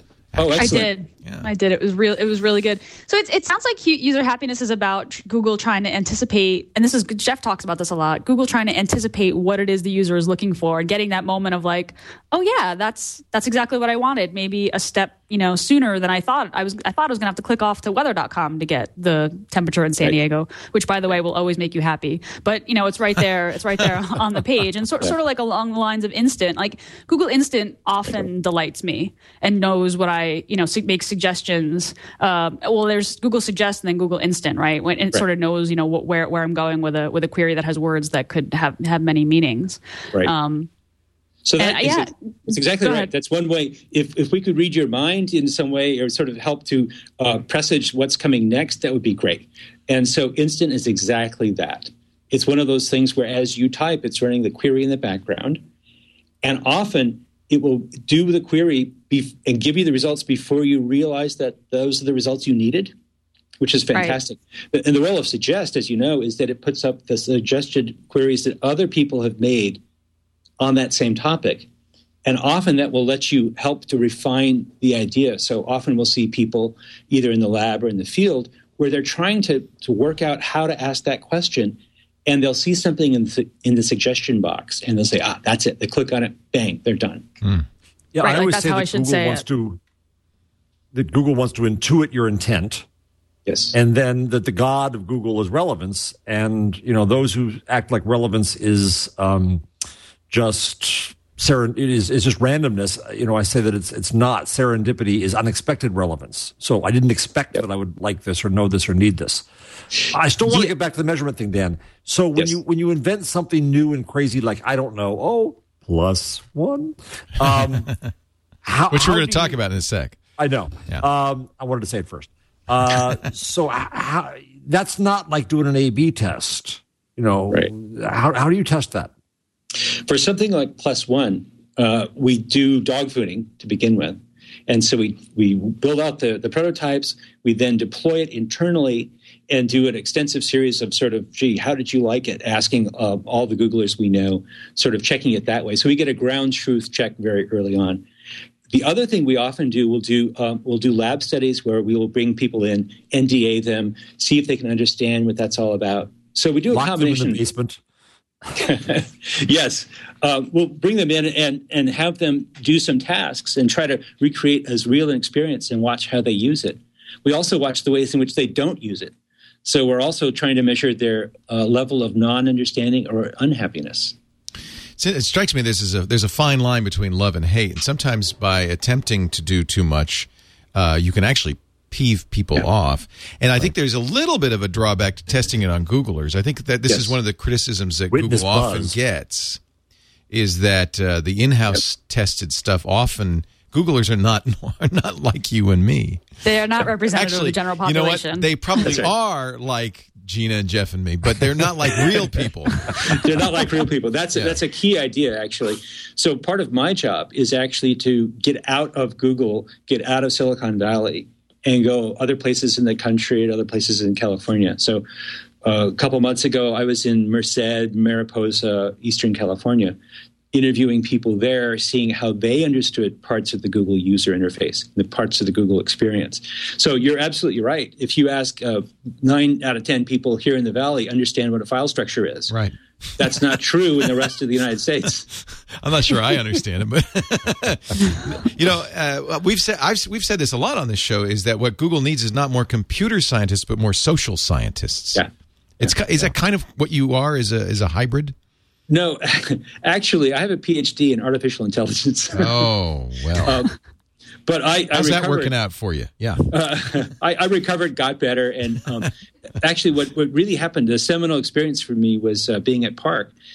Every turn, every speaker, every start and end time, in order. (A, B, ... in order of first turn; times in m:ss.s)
0:00.3-0:01.5 A
0:00.4-0:00.9 B
0:00.6-0:40.7 C
0:41.4-0:55.6 B
0:41.6-0:43.1 C
0:56.4-1:02.9 B
1:03.6-1:09.8 B
1:03.9-1:04.2 C
1:10.6-1:11.7 B
1:12.2-1:27.3 B
1:28.1-1:29.8 D
1:28.2-1:29.5 C
1:30.9-1:32.8 D
1:33.5-1:33.8 B
1:33.7-1:39.6 D
1:40.3-1:49.5 D
1:50.1-1:58.0 D
1:58.6-1:59.6 D
1:58.9-2:00.2 A
2:00.4-2:09.1 D
2:09.8-2:28.0 B
2:28.7-2:37.4 B
2:36.7-2:37.8 D
2:38.6-2:49.1 B
2:49.6-2:54.2 B
2:55.0-3:09.6 A
3:06.9-3:07.1 B
3:08.1-3:09.0 D
3:10.3-3:16.3 A
3:16.4-3:18.5 C
3:17.1-3:23.3 A
3:18.8-3:19.1 B
3:22.9-3:35.0 B
3:35.6-3:40.0 B
3:40.5-3:52.6 B
3:52.5-3:53.3 A
3:53.2-3:55.3 B
3:55.4-4:05.2 A
4:05.8-4:08.4 A
4:05.8-4:06.3 B
4:08.9-4:12.7 B
4:12.3-4:13.6 A
4:13.4-4:13.7 B
4:14.5-4:15.6 B
4:14.9-4:16.5 A
4:16.5-4:23.4 B